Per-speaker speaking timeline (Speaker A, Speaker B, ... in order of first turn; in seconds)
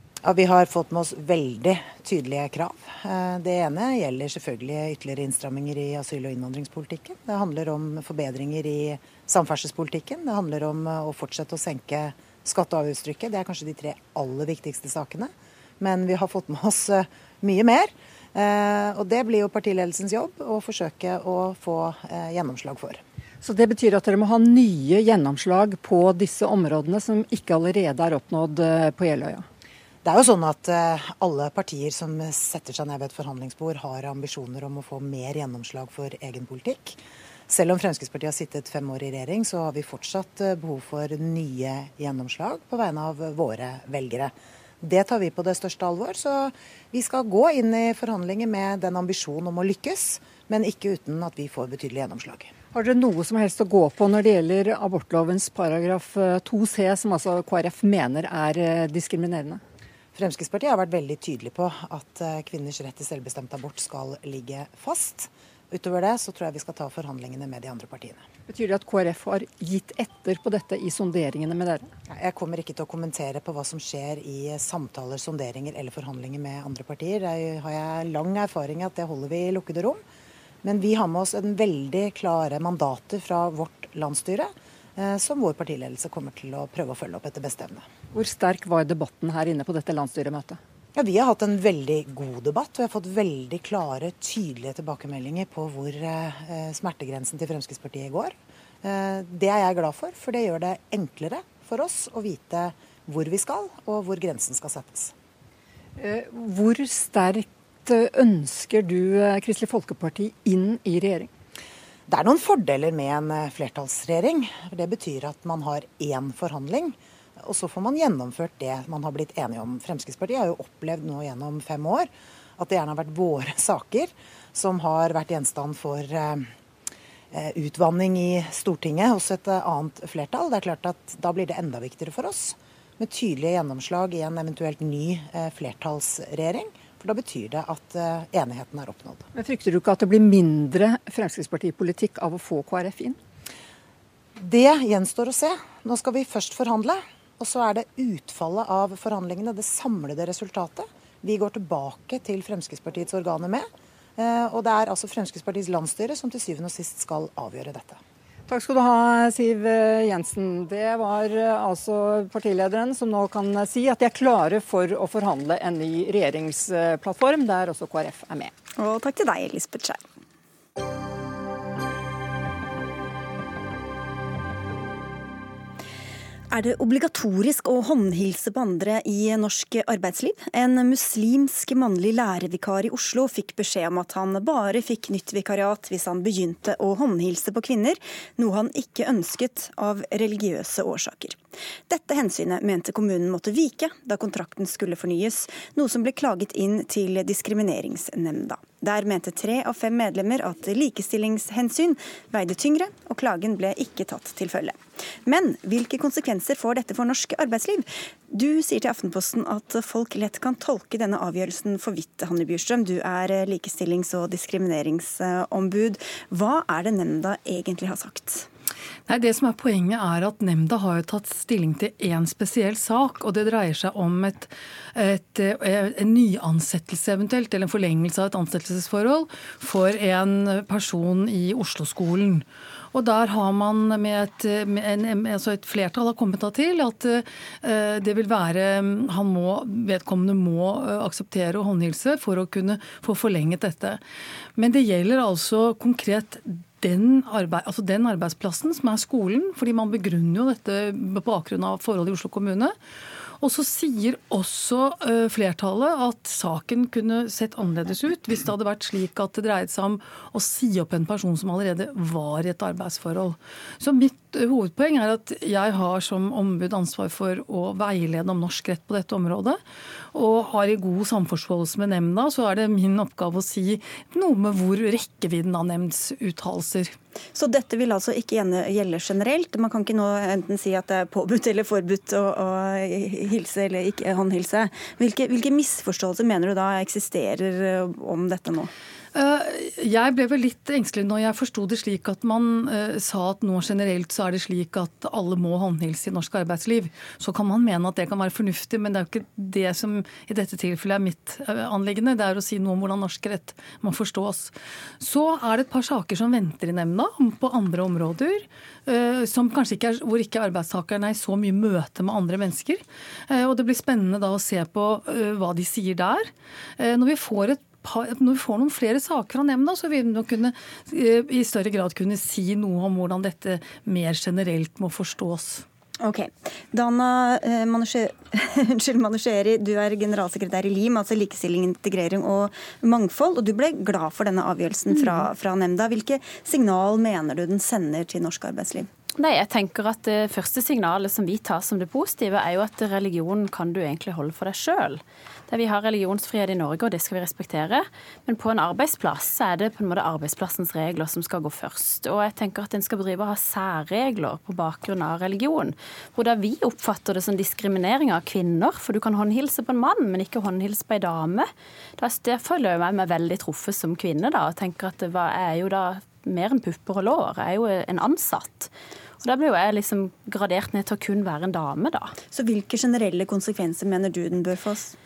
Speaker A: 0.2-23.0, 30.0-52.5, 60.1-68.2, 72.1-80.0, 80.6-87.9, 91.0-105.1, 112.1-126.5, 127.3-139.3, 144.4-158.0
Speaker B: 23.4-29.5, 52.7-59.6, 68.5-71.9, 88.1-90.6, 106.0-111.3, 139.3-143.2, 158.5-168.5
Speaker C: 168.8-170.0, 176.5-218.5, 277.4-288.7, 326.0-338.9, 372.3-375.0
Speaker D: 219.1-244.0, 244.6-252.8, 253.4-269.6, 270.1-276.9, 289.1-325.6
Speaker E: 334.9-335.2, 339.2-368.7, 369.2-372.1